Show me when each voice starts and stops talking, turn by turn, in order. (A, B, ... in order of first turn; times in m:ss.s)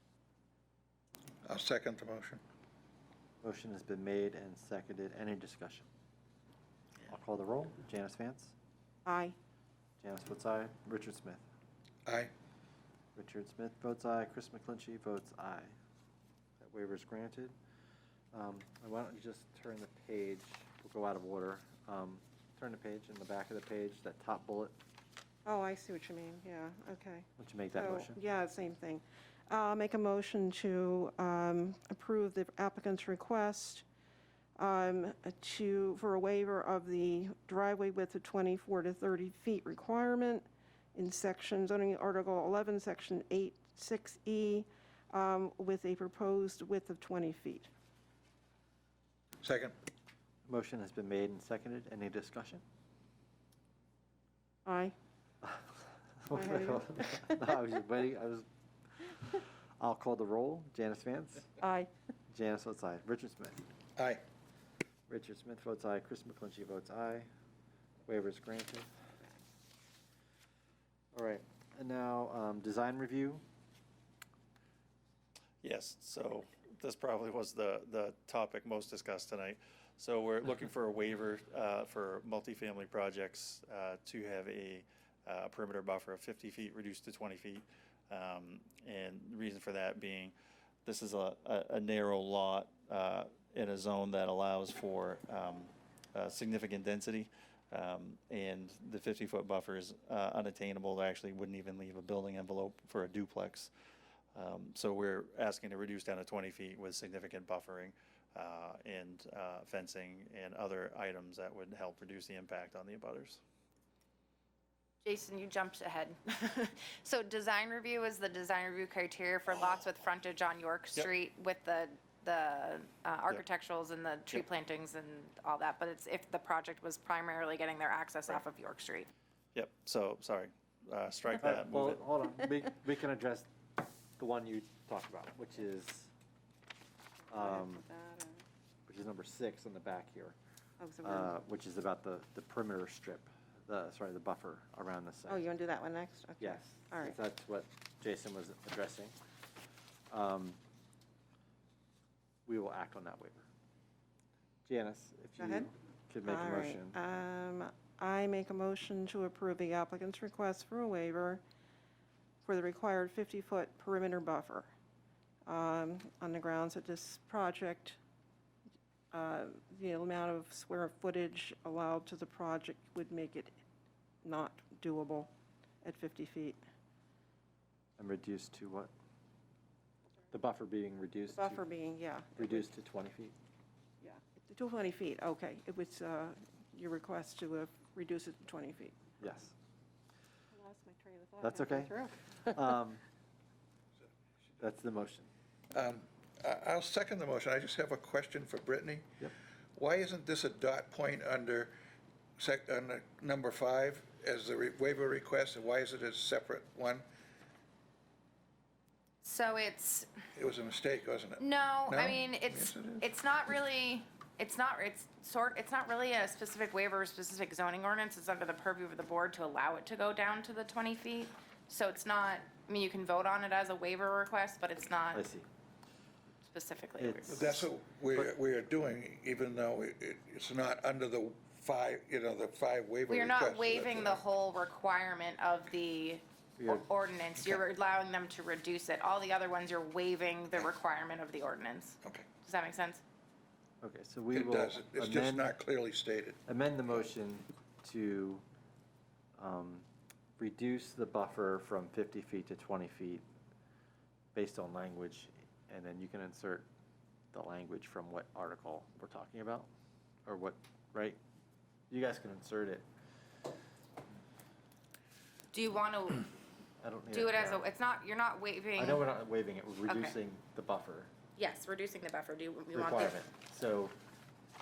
0:01.4-0:02.4 A
0:03.4-0:05.9 B
0:07.1-0:08.5 B
0:09.0-0:09.4 C
0:10.0-0:11.4 B
0:12.0-0:12.3 A
0:13.1-0:15.7 B
0:16.6-0:17.5 B
0:18.3-0:24.7 B
0:25.4-0:33.8 C
0:27.4-0:28.2 B
0:34.6-0:47.7 C
0:49.4-0:49.7 A
0:50.4-0:52.6 B
0:54.6-0:55.0 C
0:56.2-0:58.4 B
0:56.3-0:57.2 C
0:59.1-1:01.6 B
1:01.6-1:01.9 C
1:02.3-1:03.6 B
1:04.0-1:04.2 A
1:05.1-1:07.3 B
1:08.1-1:08.9 B
1:11.1-1:13.4 B
1:15.6-1:30.3 D
1:30.8-1:43.7 D
1:44.3-1:53.4 D
1:55.0-2:09.1 E
2:09.5-2:12.0 D
2:11.4-2:16.1 B
2:17.3-2:17.8 B
2:17.3-2:18.4 C
2:18.9-2:20.4 B
2:20.8-2:21.3 C
2:21.0-2:25.5 B
2:25.3-2:27.2 C
2:26.4-2:29.2 B
2:30.1-2:30.6 B
2:32.4-2:33.5 B
2:34.6-2:37.0 B
2:35.4-2:35.7 C
2:36.2-2:41.4 C
2:42.4-2:44.7 C
2:45.4-2:48.0 C
2:49.1-2:53.5 C
2:54.2-2:55.3 C
2:55.8-2:56.6 C
2:58.0-2:58.9 B
3:00.3-3:01.6 B
3:01.3-3:02.6 C
3:02.4-3:03.3 B
3:04.0-3:09.0 C
3:09.2-3:09.5 B
3:10.5-3:12.5 C
3:11.4-3:13.0 B
3:14.6-3:15.3 B
3:15.7-3:19.2 A
3:19.8-3:21.7 A
3:22.4-3:27.0 A
3:29.2-3:30.1 E
3:30.4-3:33.1 A
3:31.4-3:45.2 E
3:45.1-3:45.5 B
3:46.5-3:47.4 E
3:47.0-3:48.3 B
3:47.3-3:54.2 A
3:53.1-4:03.0 E
3:56.6-3:56.8 B
4:03.8-4:05.5 B
4:04.3-4:06.4 A
4:06.5-4:08.4 B
4:09.4-4:09.8 B
4:10.4-4:13.2 B
4:14.3-4:16.7 B
4:17.3-4:19.7 B
4:20.2-4:21.2 B
4:21.9-4:22.8 B
4:25.5-4:26.2 E
4:26.8-4:27.6 B
4:27.1-4:29.0 E
4:28.8-4:31.1 B
4:29.9-4:30.1 E
4:31.4-4:33.2 E
4:32.7-4:33.9 B